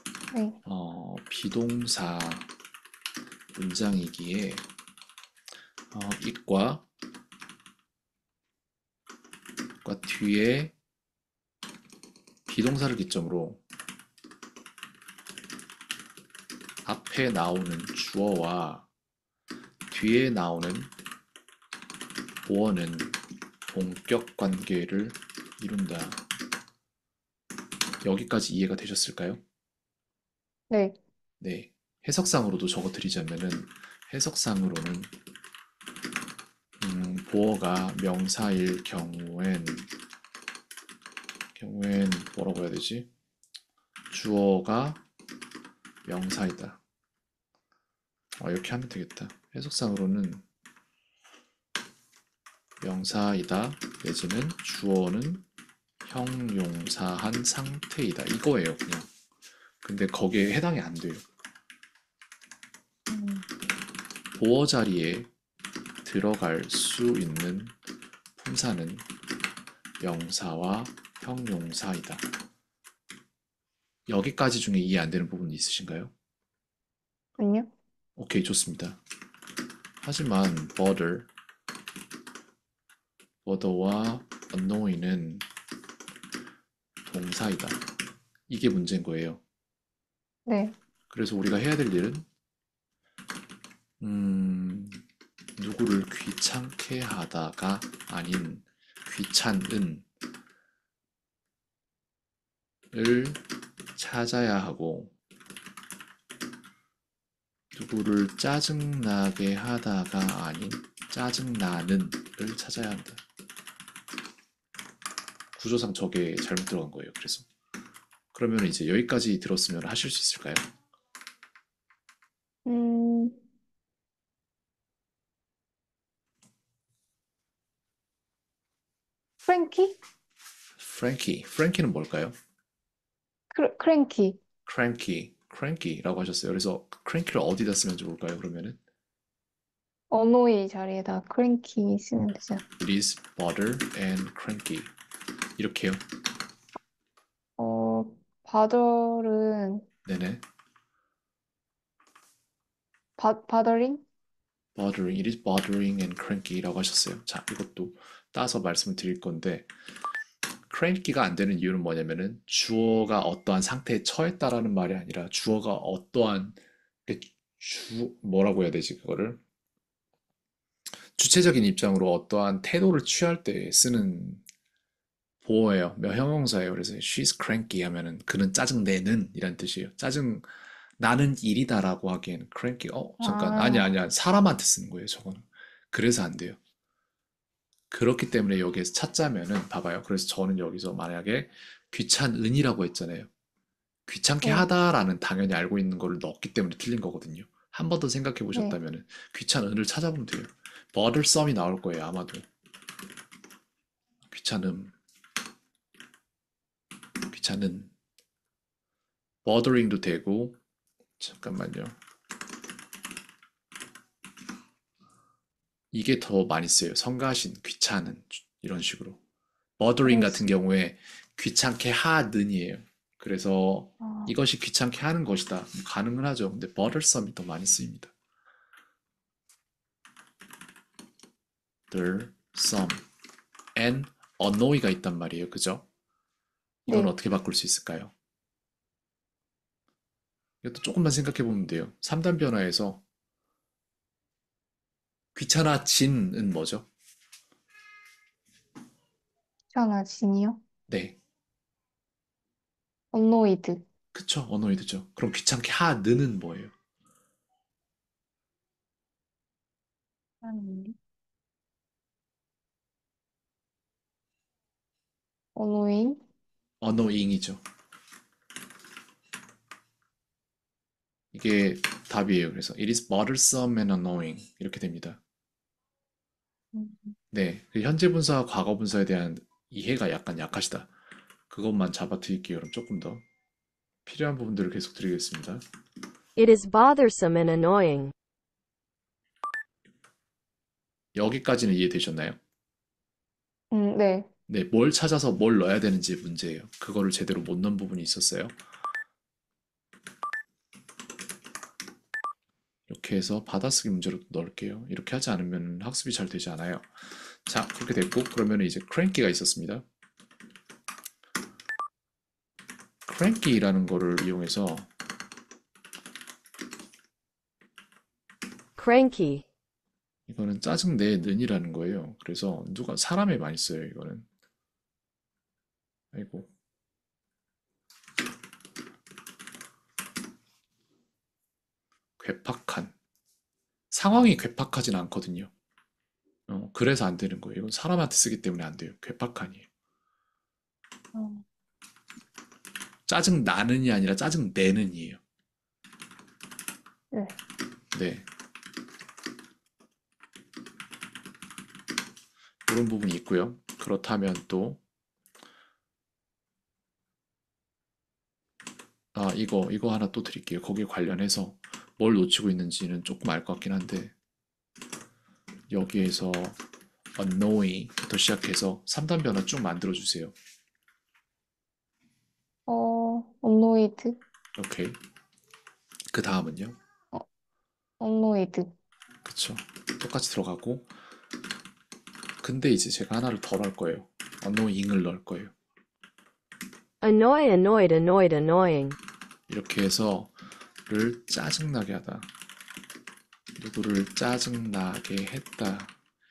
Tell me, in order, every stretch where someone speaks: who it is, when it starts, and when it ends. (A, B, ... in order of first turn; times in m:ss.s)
0:00.3-0:00.6 A
0:00.6-0:02.5 B
0:03.5-0:04.6 B
0:05.9-0:06.8 B
0:09.8-0:10.7 B
0:12.5-0:13.6 B
0:16.8-0:18.9 B
0:19.9-0:20.9 B
0:22.4-0:26.2 B
0:28.0-0:29.4 B
0:30.7-0:31.0 A
0:31.4-0:35.1 B
0:36.8-0:39.9 B
0:41.5-0:43.1 B
0:44.1-0:45.0 B
0:46.0-0:46.8 B
0:48.4-0:50.4 B
0:52.8-0:55.4 B
0:56.0-0:59.1 B
0:59.8-1:01.2 B
1:03.1-1:03.4 A
1:04.4-1:05.3 B
1:06.0-1:07.7 B
1:08.4-1:09.1 B
1:10.0-1:12.2 B
1:14.1-1:16.1 B
1:17.4-1:17.7 A
1:18.2-1:19.0 B
1:20.0-1:21.3 B
1:23.4-1:25.4 B
1:27.0-1:27.9 B
1:28.5-1:29.4 B
1:30.5-1:30.7 A
1:31.1-1:32.2 B
1:34.0-1:35.0 B
1:35.6-1:40.0 B
1:42.9-1:43.4 B
1:43.9-1:45.1 B
1:47.7-1:53.2 B
1:55.5-1:57.4 B
1:58.3-2:00.7 B
2:02.6-2:03.4 A
2:09.4-2:10.0 A
2:10.8-2:12.3 B
2:13.5-2:14.4 A
2:14.6-2:18.8 B
2:20.1-2:22.6 A
2:22.8-2:24.9 B
2:25.6-2:26.0 B
2:27.6-2:29.8 A
2:30.0-2:30.4 B
2:33.2-2:34.0 A
2:34.8-2:39.7 B
2:40.7-2:49.4 B
2:51.2-2:54.4 B
2:55.4-3:06.6 B
3:03.2-3:03.9 A
3:07.9-3:13.3 B
3:14.1-3:22.4 B
3:24.2-3:24.9 B
3:27.3-3:27.9 B
3:29.4-3:30.6 B
3:31.2-3:32.0 B
3:35.9-3:39.2 B
3:39.8-3:48.1 B
3:40.0-3:40.5 A
3:44.0-3:44.3 A
3:51.9-3:53.0 B
3:53.7-3:55.8 B
3:56.9-3:57.1 A
3:56.9-3:58.1 B
4:00.6-4:03.0 B
4:05.3-4:06.9 B
4:09.7-4:10.6 A
4:10.9-4:11.2 B
4:13.1-4:13.8 A
4:14.1-4:16.7 B
4:20.4-4:21.0 A
4:25.5-4:26.2 A
4:26.8-4:27.6 B
4:31.3-4:35.2 B
4:36.7-4:37.2 A
4:37.3-4:40.9 B
4:41.5-4:43.2 B
4:44.0-4:45.6 B
4:46.4-4:48.1 C
4:51.1-4:52.4 B
4:53.7-4:54.3 A
4:54.5-4:58.6 B
5:02.9-5:09.8 B
5:13.0-5:14.9 B
5:18.8-5:19.4 C
5:20.3-5:24.2 B
5:26.1-5:26.5 B
5:32.2-5:32.9 B
5:33.9-5:35.5 B
5:36.5-5:39.6 B
5:41.1-5:41.4 A
5:43.1-5:45.2 B
5:47.9-5:48.2 B
5:52.6-5:54.8 B
5:59.1-6:04.1 B
6:05.7-6:06.6 B
6:07.1-6:10.3 B
6:12.7-6:14.2 A
6:14.6-6:15.0 B
6:16.1-6:16.8 B
6:18.0-6:18.7 A
6:19.2-6:20.9 B
6:22.4-6:25.5 B
6:27.0-6:29.0 C
6:29.5-6:30.3 B
6:30.9-6:32.3 B
6:33.6-6:36.0 B